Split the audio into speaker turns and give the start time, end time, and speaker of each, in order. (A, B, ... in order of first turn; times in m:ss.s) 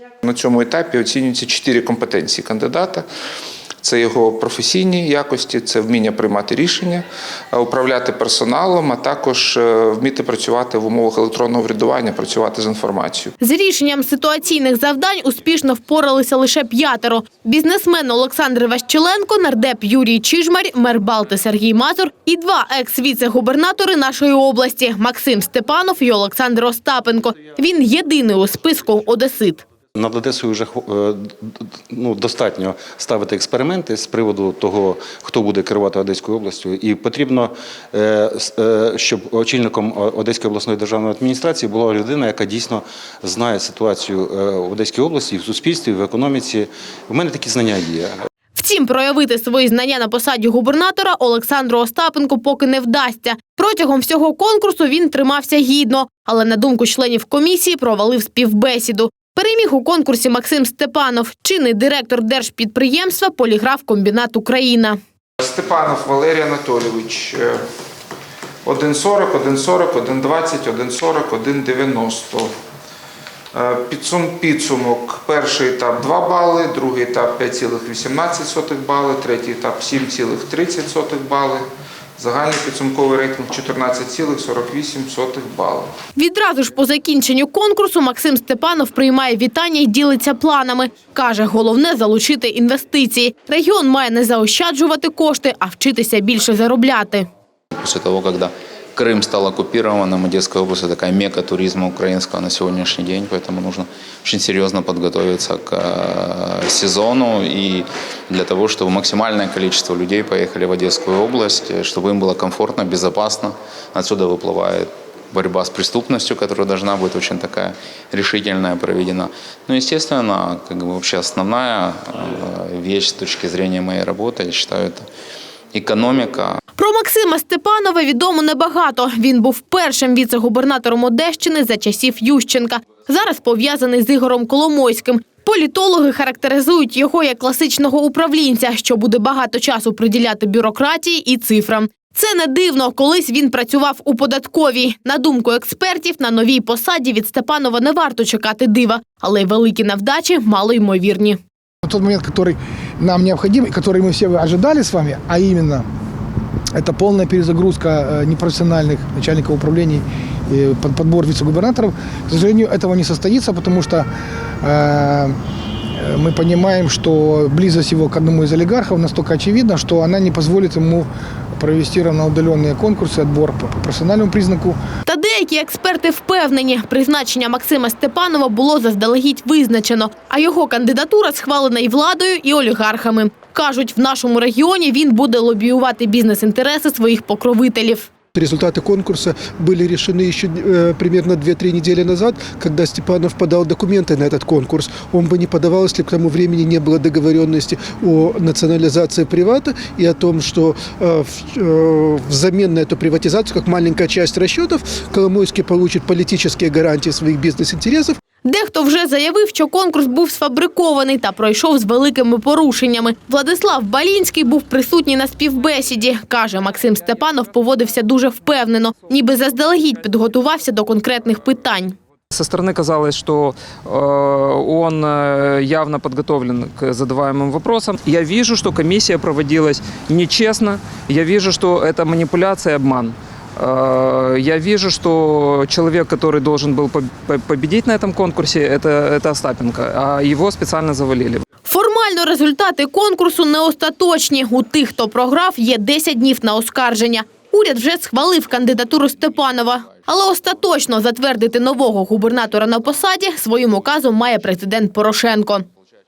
0:00.2-0:03.0 A
0:03.8-0:13.3 A
0:13.4-0:29.7 B
0:30.0-0:48.2 C
0:48.5-1:05.0 B
1:05.4-1:07.6 A
1:08.6-1:12.5 A
1:13.5-1:21.6 A
1:22.2-1:25.9 A
1:26.2-1:37.3 B
1:37.8-2:05.0 D
2:05.7-2:06.6 D
2:06.8-2:31.4 B
2:31.8-2:35.8 E
2:36.8-2:44.0 E
2:44.6-2:45.3 E
2:46.0-2:51.1 E
2:51.6-2:54.8 E
2:55.0-3:08.1 B
3:08.3-3:28.2 F
3:28.4-3:42.0 B
3:42.3-4:01.4 G
4:01.6-4:15.6 B